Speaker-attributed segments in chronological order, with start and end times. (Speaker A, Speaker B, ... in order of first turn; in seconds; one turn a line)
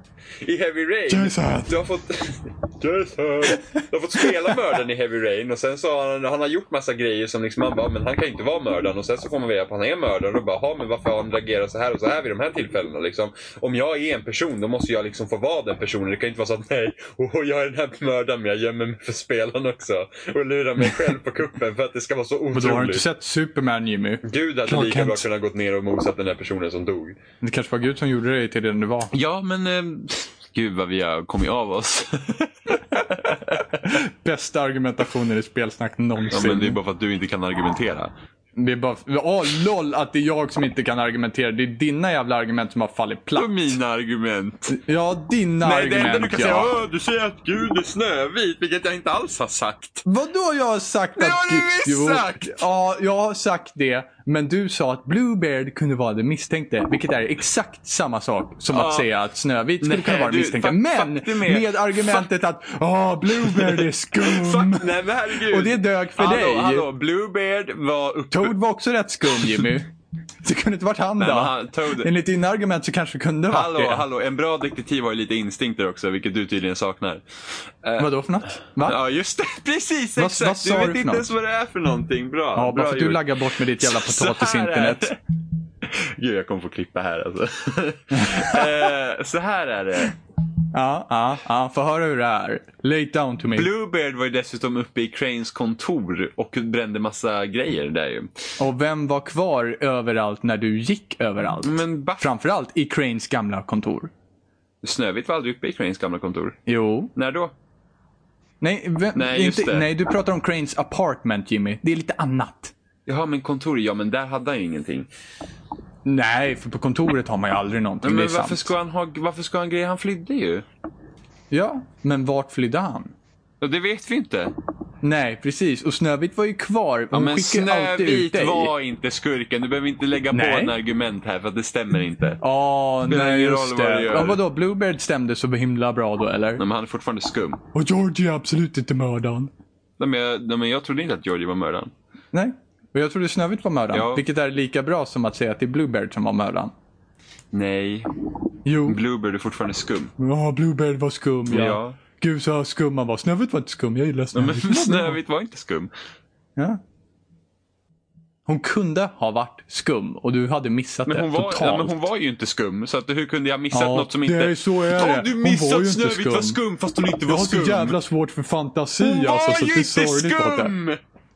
Speaker A: 0.4-23.1
Speaker B: 1.1-1.8
Speaker B: 22.5-25.3
Speaker A: 24.2-27.2
Speaker B: 27.4-29.1
Speaker A: 29.1-33.6
Speaker B: 33.8-36.8
Speaker A: 36.3-38.1
Speaker B: 38.6-43.8
Speaker A: 43.4-44.8
Speaker B: 44.7-46.7
Speaker A: 45.6-50.0
Speaker B: 50.0-66.9
Speaker A: 51.2-52.6
Speaker A: 58.7-59.1
Speaker A: 59.8-62.2
Speaker A: 63.4-68.5
Speaker B: 68.3-69.9
Speaker A: 69.4-69.7
Speaker B: 70.4-74.0
Speaker A: 71.2-72.1
Speaker A: 73.5-78.1
Speaker B: 78.0-79.0
Speaker A: 78.8-85.2
Speaker B: 80.2-81.3
Speaker B: 82.5-85.1
Speaker A: 85.8-90.2
Speaker B: 88.2-88.7
Speaker B: 90.7-93.7
Speaker A: 93.5-98.3
Speaker B: 98.6-104.1
Speaker A: 101.6-102.3
Speaker A: 104.8-106.6
Speaker B: 106.7-107.1
Speaker A: 107.2-107.5
Speaker B: 108.6-112.7
Speaker A: 109.2-109.9
Speaker A: 113.1-115.1
Speaker B: 116.0-118.7
Speaker A: 118.0-120.7
Speaker B: 121.5-123.1
Speaker A: 123.6-124.5
Speaker B: 125.0-128.7
Speaker A: 127.1-132.4
Speaker B: 130.3-130.8
Speaker B: 132.4-136.6
Speaker A: 133.0-134.4
Speaker A: 136.6-137.6
Speaker B: 137.7-139.5
Speaker A: 140.0-141.9
Speaker B: 142.3-146.7
Speaker A: 143.9-144.2
Speaker A: 147.5-148.1
Speaker B: 148.7-149.0
Speaker A: 148.9-150.1
Speaker B: 150.2-155.2
Speaker A: 151.5-152.0
Speaker A: 154.3-155.9
Speaker B: 158.5-162.0
Speaker A: 161.1-168.0
Speaker B: 163.7-166.6
Speaker B: 167.3-170.8
Speaker A: 169.0-171.0